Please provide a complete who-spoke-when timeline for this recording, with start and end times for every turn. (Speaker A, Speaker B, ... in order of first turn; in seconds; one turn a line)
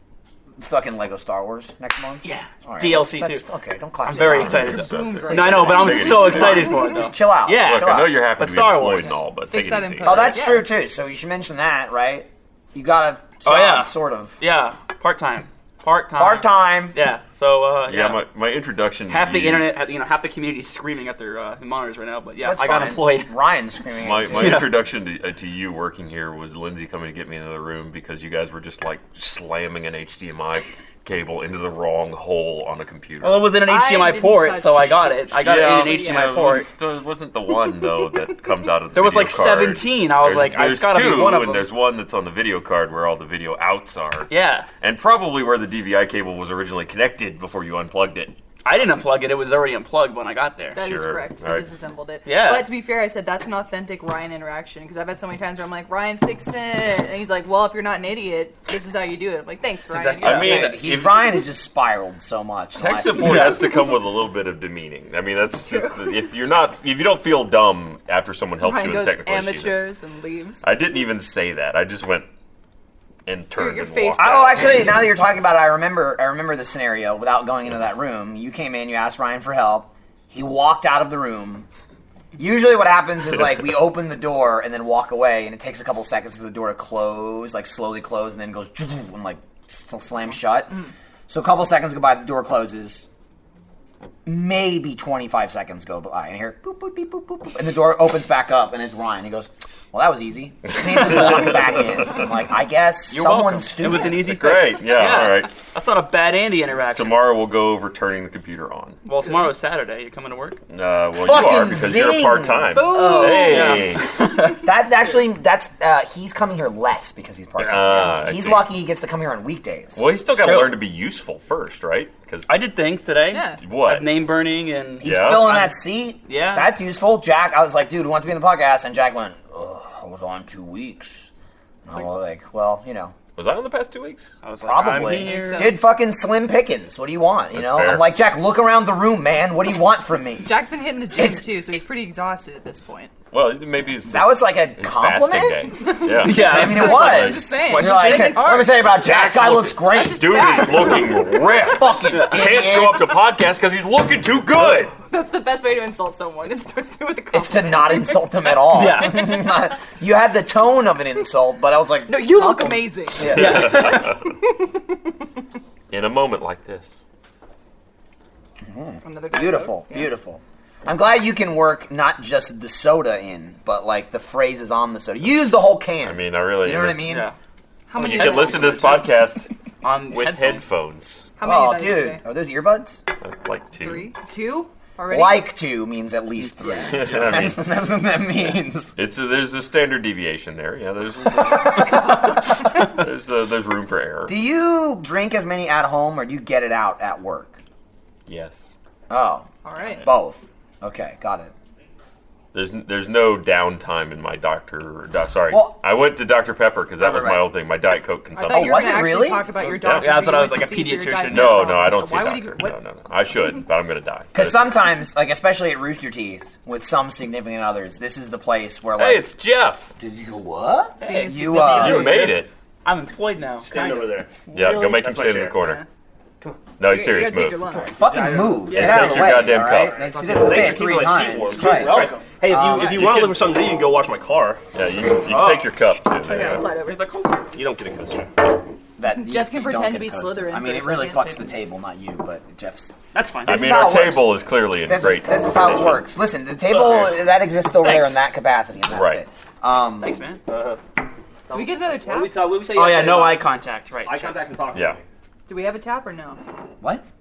Speaker A: 0.6-8.2
Speaker B: 2.2-3.5
Speaker B: 4.0-9.2
Speaker C: 4.2-6.9
Speaker D: 4.7-6.2
Speaker C: 7.5-10.4
Speaker D: 9.5-10.7
Speaker A: 10.0-14.4
Speaker B: 13.4-18.2
Speaker A: 16.1-16.9
Speaker C: 17.9-19.7
Speaker B: 19.1-23.3
Speaker A: 22.4-24.7
Speaker C: 24.0-33.5
Speaker B: 24.3-24.7
Speaker B: 33.2-36.7
Speaker D: 33.5-36.6
Speaker C: 35.3-48.3
Speaker B: 38.9-41.7
Speaker B: 44.3-44.7
Speaker B: 48.6-50.8
Speaker D: 50.8-60.8
Speaker C: 50.8-51.7
Speaker B: 52.2-52.7
Speaker B: 59.9-60.8
Speaker C: 60.2-61.2
Speaker A: 60.2-63.5
Speaker C: 62.8-69.8
Speaker B: 63.2-63.7
Speaker D: 68.6-70.6
Speaker C: 70.6-72.3
Speaker C: 73.2-74.9
Speaker D: 73.5-74.9
Speaker A: 74.2-81.7
Speaker A: 82.4-93.0
Speaker A: 94.2-104.2
Speaker B: 103.1-107.2
Speaker C: 104.0-105.5
Speaker C: 106.9-109.0
Speaker B: 109.0-110.6
Speaker C: 110.7-114.1
Speaker A: 111.2-113.4
Speaker D: 112.8-113.8
Speaker B: 112.8-114.6
Speaker A: 114.5-120.0
Speaker C: 117.6-118.7
Speaker C: 119.9-122.5
Speaker B: 120.3-120.8
Speaker B: 122.5-126.7
Speaker D: 123.3-123.6
Speaker C: 123.6-124.2
Speaker A: 125.0-131.3
Speaker C: 125.0-125.5
Speaker A: 131.8-133.2
Speaker C: 133.3-134.3
Speaker B: 134.4-135.7
Speaker A: 134.6-140.5
Speaker D: 135.1-135.8
Speaker C: 137.5-138.1
Speaker D: 140.4-143.1
Speaker A: 141.1-141.5
Speaker C: 143.3-148.1
Speaker A: 144.1-151.1
Speaker D: 145.9-148.9
Speaker B: 146.2-148.5
Speaker C: 149.0-154.9
Speaker D: 149.9-151.5
Speaker A: 151.6-153.1
Speaker B: 152.1-152.4
Speaker D: 155.1-158.9
Speaker A: 157.3-163.9
Speaker B: 158.7-159.4
Speaker D: 162.1-164.8
Speaker C: 163.3-164.2
Speaker B: 163.3-163.9
Speaker C: 165.9-167.0
Speaker A: 168.6-177.3
Speaker D: 169.0-170.1
Speaker C: 176.0-177.1
Speaker B: 177.0-177.3
Speaker D: 177.9-178.9
Speaker C: 177.9-179.5
Speaker B: 178.0-179.1
Speaker B: 179.8-180.6
Speaker C: 180.1-181.3
Speaker D: 181.4-182.2
Speaker A: 181.4-183.0
Speaker C: 183.2-184.1
Speaker D: 183.8-185.5
Speaker A: 185.1-188.9
Speaker C: 186.8-187.7
Speaker C: 188.9-194.3
Speaker A: 191.5-192.4
Speaker A: 194.2-197.6
Speaker C: 198.3-198.7
Speaker A: 199.1-199.5
Speaker D: 199.6-200.1
Speaker A: 200.0-201.5
Speaker C: 202.5-209.1
Speaker A: 205.5-205.8
Speaker B: 207.0-207.4
Speaker D: 208.3-212.8
Speaker A: 208.5-209.5
Speaker C: 209.7-210.1
Speaker B: 209.8-211.8
Speaker C: 211.3-214.6
Speaker A: 214.3-219.3
Speaker C: 219.0-219.9
Speaker A: 220.0-222.3
Speaker D: 221.0-222.3
Speaker B: 221.0-224.1
Speaker C: 221.6-222.5
Speaker E: 223.6-225.6
Speaker C: 224.5-225.8
Speaker D: 225.6-225.8
Speaker C: 226.8-227.9
Speaker D: 226.8-228.2
Speaker A: 227.9-233.0
Speaker B: 228.0-228.8
Speaker D: 228.7-229.3
Speaker C: 228.7-230.0
Speaker B: 230.0-230.9
Speaker E: 230.0-234.6
Speaker B: 231.4-233.1
Speaker C: 232.8-233.4
Speaker C: 234.7-236.6
Speaker B: 235.2-235.7
Speaker D: 236.2-237.1
Speaker B: 236.7-237.5
Speaker E: 237.5-238.3
Speaker A: 239.0-250.1
Speaker D: 239.1-241.4
Speaker B: 243.1-243.8
Speaker C: 243.4-246.0
Speaker B: 247.8-248.2
Speaker C: 248.9-249.2
Speaker B: 250.0-250.4
Speaker E: 250.5-250.8
Speaker E: 251.5-253.5
Speaker D: 251.5-252.3
Speaker B: 252.7-254.4
Speaker E: 254.0-255.0
Speaker C: 254.7-255.0
Speaker D: 255.5-256.4